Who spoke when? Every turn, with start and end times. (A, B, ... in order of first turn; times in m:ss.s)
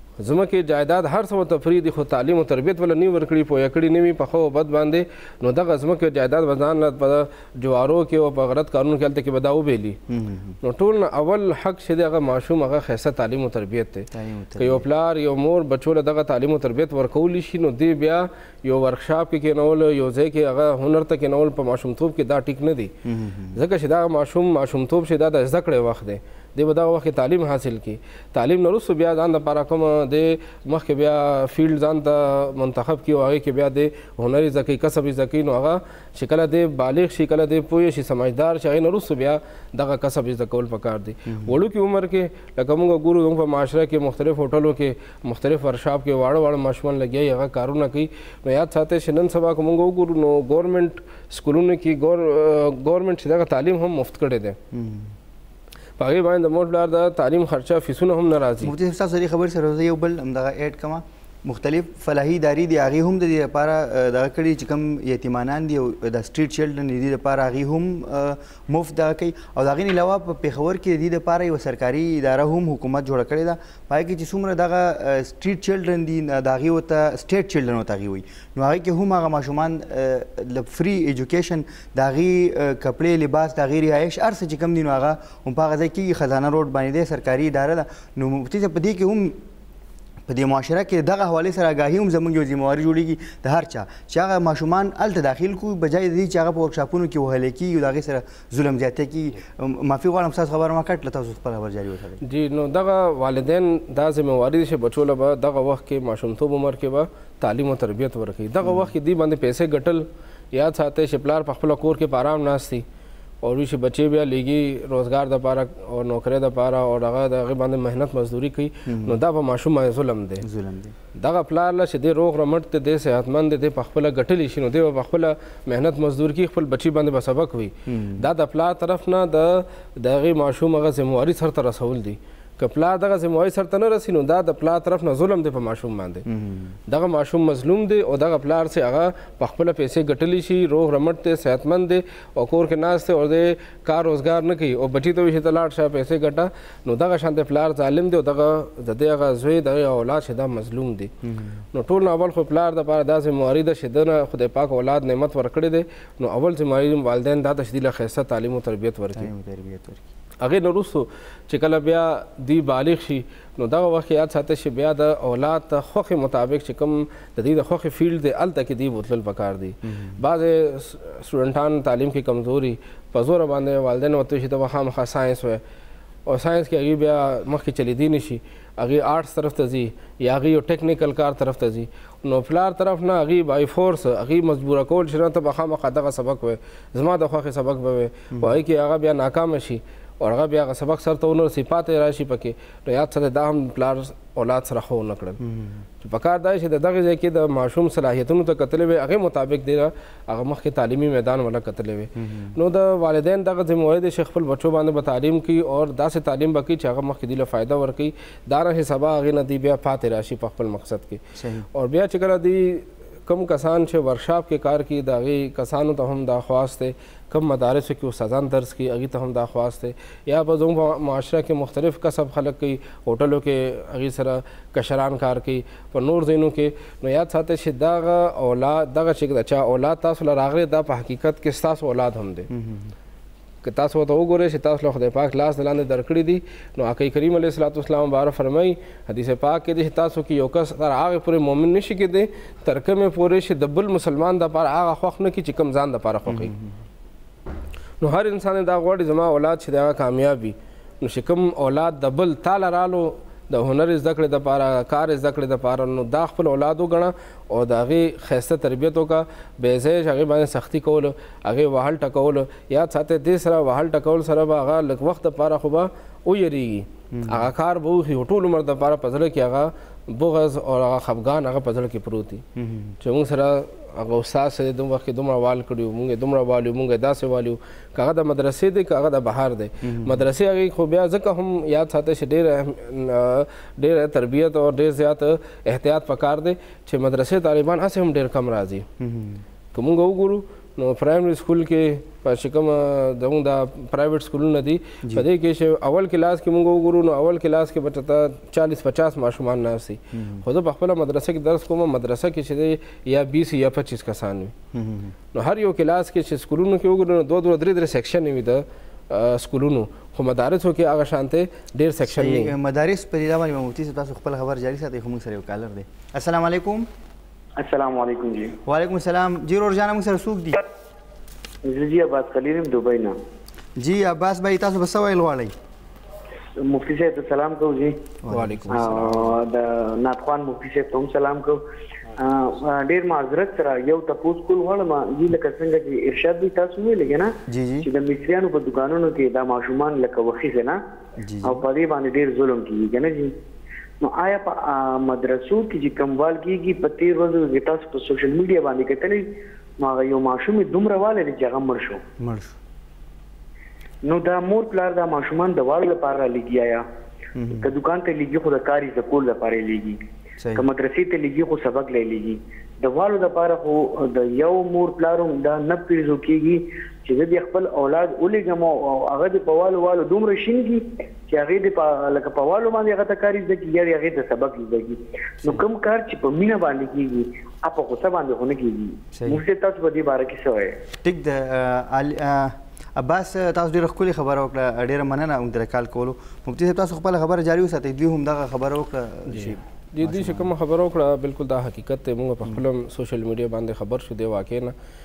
0:00.2-0:10.0 A
0:10.1-0:10.6 B
0:10.6-0:22.9 A
0:14.1-0:14.9 B
0:23.0-0:23.6 B
0:23.6-0:54.6 A
0:41.3-0:41.6 B
0:54.7-0:55.1 B
0:56.0-0:58.7 A
0:58.6-1:29.4 B
1:30.3-1:42.2 B
1:42.2-1:52.8 A
1:48.6-1:48.9 B
1:53.4-2:00.4 A
1:58.9-1:59.2 B
2:00.4-2:01.0 B
2:01.2-2:16.2 A
2:07.9-2:08.2 B
2:16.3-2:16.8 B
2:16.9-2:31.1 A
2:31.2-2:31.6 B
2:31.7-2:39.3 A
2:39.2-2:40.0 B
2:40.4-2:55.6 A
2:49.8-2:50.2 B
2:56.3-3:15.4 A
3:15.4-3:15.8 B
3:16.0-3:31.2 A
3:22.2-3:22.6 B
3:31.4-3:31.7 B
3:31.7-3:52.5 A
3:52.5-3:52.9 B
3:53.6-4:06.5 A
4:06.3-4:06.8 B
4:08.0-4:32.4 A
4:27.1-4:27.5 B
4:32.6-4:33.0 B
4:33.0-4:48.9 A
4:39.8-4:40.2 B
4:49.0-4:49.4 B
4:49.7-5:04.5 A
5:00.1-5:00.4 B
5:04.7-5:05.2 B
5:05.3-5:12.5 A
5:12.1-5:16.9 B
5:17.6-5:18.6 C
5:18.6-5:20.6 B
5:21.6-5:23.2 C
5:23.8-5:25.5 B
5:26.6-5:28.0 C
5:28.2-5:29.1 B
5:28.3-5:29.4 A
5:28.7-5:31.6 C
5:32.2-5:37.3 C
5:37.5-5:37.9 B
5:37.8-5:40.8 C
5:41.2-5:41.6 B
5:41.4-5:43.3 C
5:44.0-5:49.2 C
5:49.8-5:52.0 C
5:52.2-5:52.6 B
5:54.0-5:56.8 C
5:57.4-5:57.7 B
5:57.6-6:00.0 C
6:00.4-6:00.7 B
6:00.6-6:20.8 C
6:19.1-6:19.4 B
6:21.0-6:30.5 B
6:29.3-6:34.7 A